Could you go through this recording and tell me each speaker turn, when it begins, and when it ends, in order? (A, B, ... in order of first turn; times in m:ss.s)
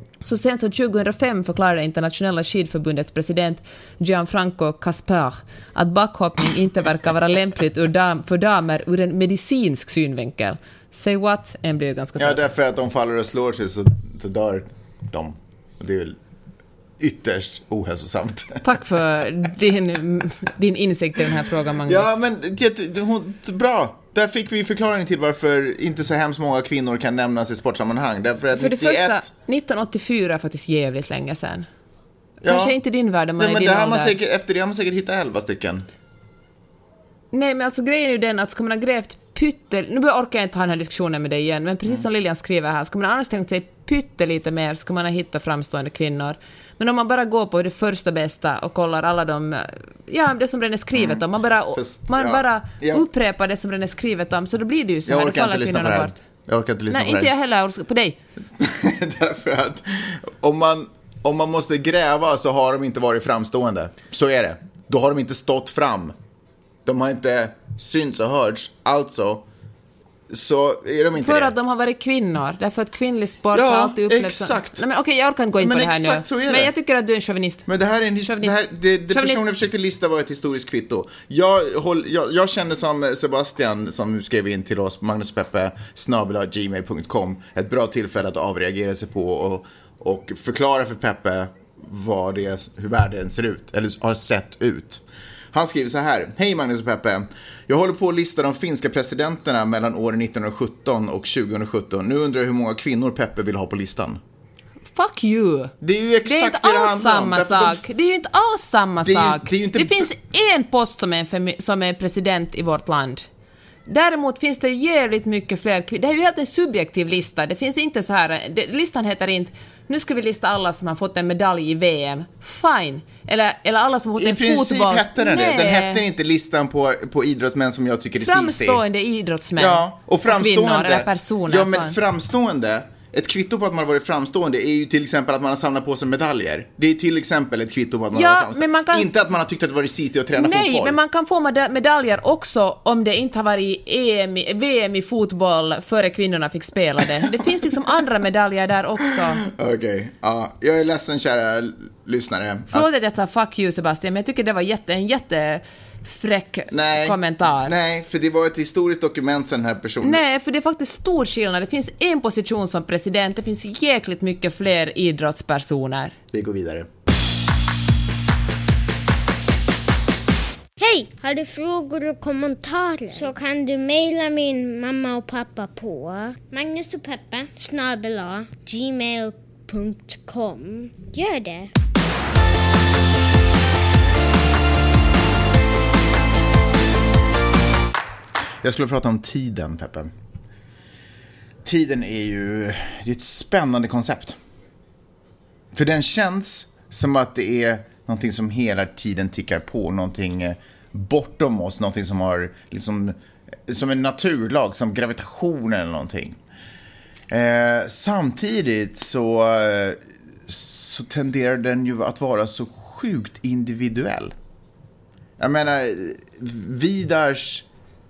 0:00.2-0:12.5 A
0:12.2-0:16.2 B
0:17.0-0:18.6 B
0:18.6-0:22.1 A
0:21.9-0:29.3 B
0:28.5-0:31.7 A
0:32.4-0:32.8 B
0:32.4-0:34.1 A
0:33.4-0:35.9 B
0:37.3-0:56.2 A
0:51.0-0:51.2 B
0:51.8-0:53.1 B
0:55.1-0:57.3 B
0:56.9-0:58.2 A
0:58.6-1:06.1 B
1:06.8-1:09.5 B
1:10.3-1:11.5 B
1:11.1-1:17.7 A
1:13.5-1:14.8 B
1:15.6-1:16.7 B
1:17.7-1:44.2 B
1:18.2-1:18.6 A
1:19.1-1:19.4 A
1:44.9-1:45.7 A
1:45.8-1:47.8 B
1:46.2-1:53.3 A
1:49.0-1:50.1 B
1:53.9-2:06.0 A
2:04.2-2:08.8 B
2:08.2-2:12.0 A
2:09.6-2:21.0 B
2:18.1-2:19.1 A
2:20.4-2:29.4 A
2:29.1-2:32.9 B
2:32.7-2:37.7 A
2:36.7-2:40.2 B
2:40.0-2:46.2 A
2:46.3-2:46.9 B
2:50.8-3:01.7 C
3:08.6-3:10.1 B
3:11.6-3:14.4 B
3:15.7-3:23.2 B
3:23.7-3:26.4 B
3:27.3-3:34.3 B
3:35.4-3:37.7 B